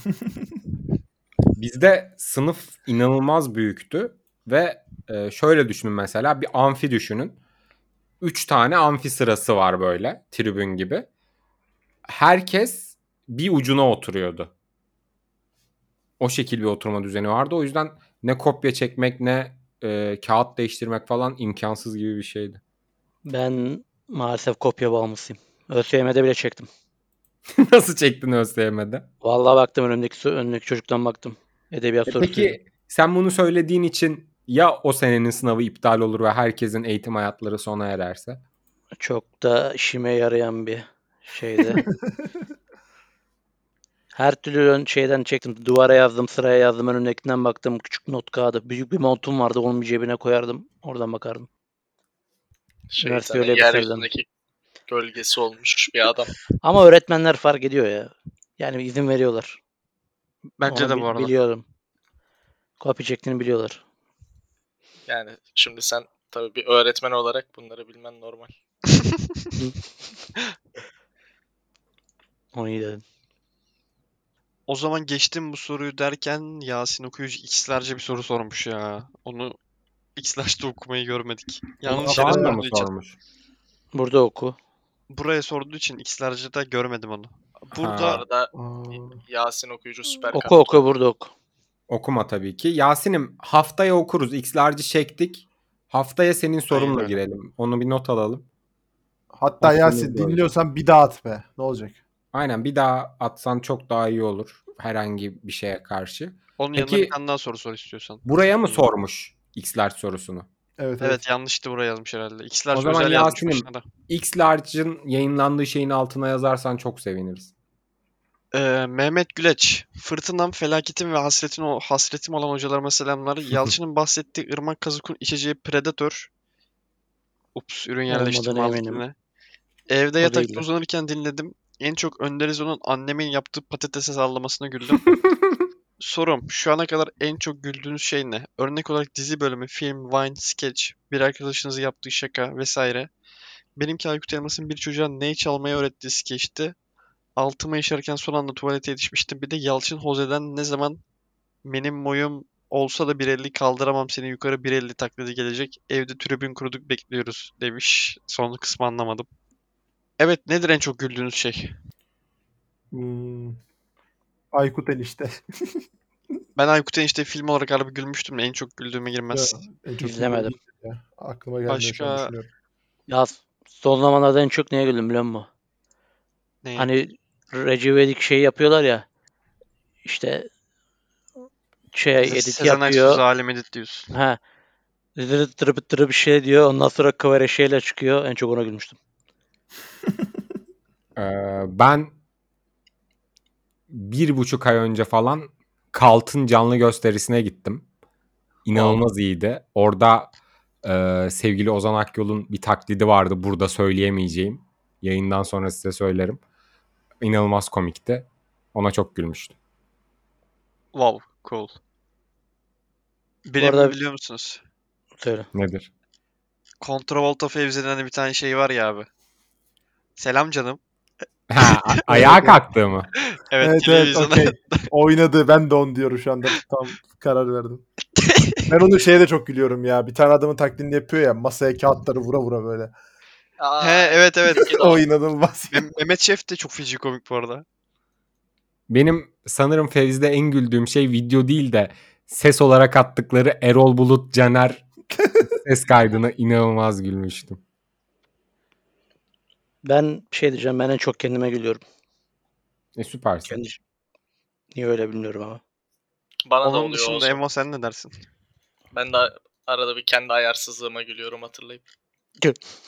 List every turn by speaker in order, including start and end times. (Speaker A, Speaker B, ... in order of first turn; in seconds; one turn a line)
Speaker A: 1.6-7.4
Speaker A: 8.2-11.1
Speaker A: 12.1-14.5
Speaker A: 16.2-22.6
Speaker B: 23.2-26.7
Speaker A: 27.5-29.1
Speaker B: 29.2-32.6
Speaker A: 32.1-38.4
Speaker B: 39.0-41.8
Speaker C: 41.7-42.1
Speaker B: 44.1-51.5
Speaker D: 52.9-54.3
Speaker B: 53.0-54.1
Speaker D: 54.9-56.3
Speaker B: 56.6-59.6
Speaker E: 60.6-61.3
Speaker B: 60.7-61.6
Speaker B: 62.8-63.8
Speaker D: 65.1-68.5
Speaker B: 72.5-73.0
Speaker E: 74.7-79.5
Speaker E: 80.2-82.9
Speaker C: 81.9-82.6
Speaker A: 81.9-83.2
Speaker B: 83.9-84.6
Speaker E: 85.1-88.2
Speaker A: 87.8-88.2
Speaker D: 87.9-90.8
Speaker C: 88.5-89.2
Speaker B: 90.3-91.3
Speaker A: 91.9-98.5
Speaker E: 96.7-97.2
Speaker C: 99.3-102.0
Speaker A: 99.6-100.5
Speaker A: 102.3-107.1
Speaker E: 106.6-108.8
Speaker A: 108.2-110.5
Speaker C: 110.8-111.2
Speaker E: 111.0-113.8
Speaker A: 112.7-117.5
Speaker E: 118.5-126.3
Speaker E: 127.5-129.1
Speaker B: 128.1-129.0
Speaker E: 129.9-135.1
Speaker B: 130.2-130.7
Speaker E: 136.0-143.1
Speaker E: 143.8-146.7
Speaker E: 147.4-151.0
Speaker E: 151.6-159.3
Speaker E: 160.2-161.7
Speaker C: 162.9-163.6
Speaker C: 164.5-165.4
Speaker E: 166.6-169.6
Speaker C: 169.3-172.5
Speaker B: 170.0-170.5
Speaker E: 171.7-172.3
Speaker B: 173.1-175.5
Speaker E: 176.6-176.9
Speaker B: 176.8-179.0
Speaker B: 180.0-180.5
Speaker B: 181.9-183.2
Speaker E: 182.2-184.1
Speaker B: 184.1-184.4
Speaker B: 185.2-189.0
Speaker A: 191.2-192.1
Speaker A: 193.9-197.8
Speaker A: 198.6-200.3
Speaker A: 200.8-206.4
Speaker A: 207.2-209.5
Speaker E: 210.9-211.7
Speaker E: 213.4-214.6
Speaker B: 213.6-214.0
Speaker B: 215.2-215.5
Speaker A: 215.5-215.9
Speaker E: 216.8-219.1
Speaker E: 220.2-220.8
Speaker A: 221.5-223.1
Speaker C: 222.1-222.6
Speaker E: 223.3-224.8
Speaker C: 223.6-227.8
Speaker E: 228.2-228.6
Speaker C: 228.7-232.9
Speaker D: 233.6-235.1
Speaker E: 233.8-234.7
Speaker C: 234.7-235.8
Speaker E: 235.7-237.6
Speaker A: 238.9-244.8
Speaker A: 245.5-247.6
Speaker B: 249.8-251.8
Speaker A: 252.9-253.6
Speaker B: 253.5-253.8
Speaker B: 254.7-255.6
Speaker D: 256.4-257.4
Speaker E: 256.6-258.1
Speaker D: 258.9-261.8